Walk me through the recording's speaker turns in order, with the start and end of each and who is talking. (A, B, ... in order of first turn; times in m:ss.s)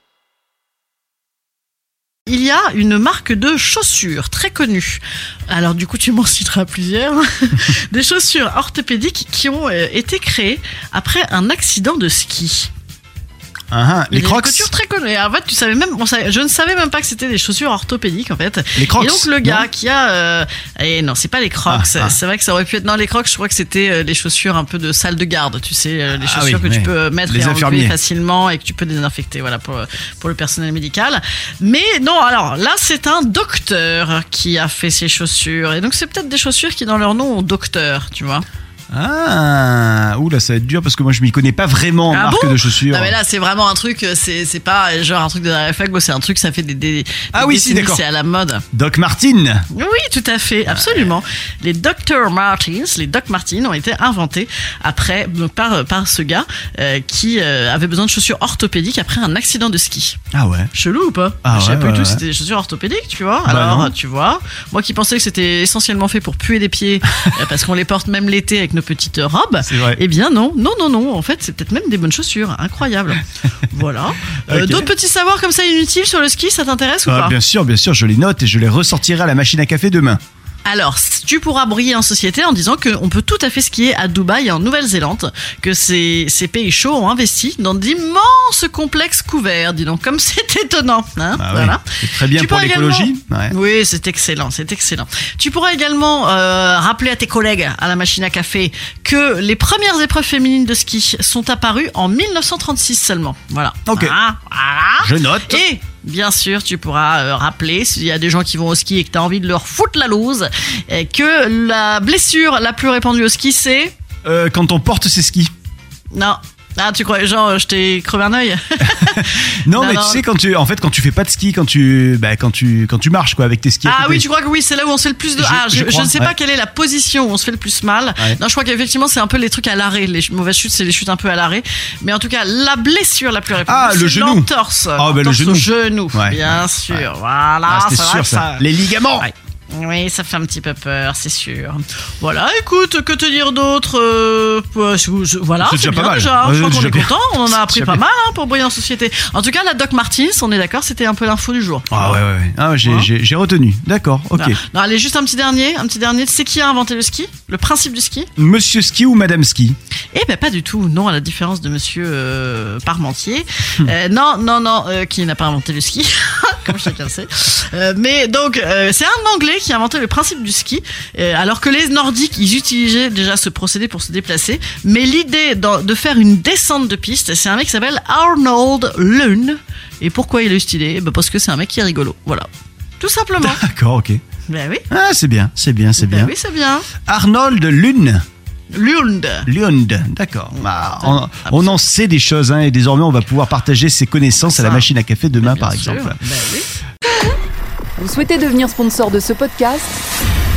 0:02.3-0:12.7 A
0:13.7-0:14.7 B
0:14.1-0:38.4 A
0:18.8-0:19.7 B
0:21.7-0:22.2 B
0:26.1-0:27.9 B
0:38.9-0:43.2 B
0:42.1-0:48.6 A
0:47.3-0:48.0 B
0:48.7-0:49.6 B
0:49.7-1:00.2 A
0:50.8-0:51.1 B
1:00.3-1:00.7 B
1:00.7-1:17.4 A
1:01.4-1:02.2 B
1:03.4-1:03.9 B
1:09.6-1:10.0 B
1:14.5-1:14.9 B
1:17.0-1:20.2 B
1:20.6-1:53.9 A
1:31.3-1:33.5 B
1:43.9-1:44.2 B
1:45.0-1:45.6 B
1:54.2-1:55.5 B
1:56.1-2:00.2 A
1:58.8-2:04.2 B
2:03.8-2:32.2 A
2:05.4-2:06.3 B
2:13.6-2:17.0 B
2:17.7-2:19.3 B
2:25.6-2:28.0 B
2:31.9-2:34.6 B
2:34.3-2:38.3 A
2:38.4-2:39.8 B
2:40.1-3:02.5 A
3:03.0-3:03.6 A
3:03.4-3:04.2 B
3:04.5-3:04.9 A
3:04.9-3:06.3 B
3:06.0-3:06.9 A
3:07.0-3:08.2 B
3:08.7-3:09.5 A
3:09.4-3:16.2 B
3:11.0-3:11.8 A
3:14.4-3:16.7 A
3:18.0-3:20.0 C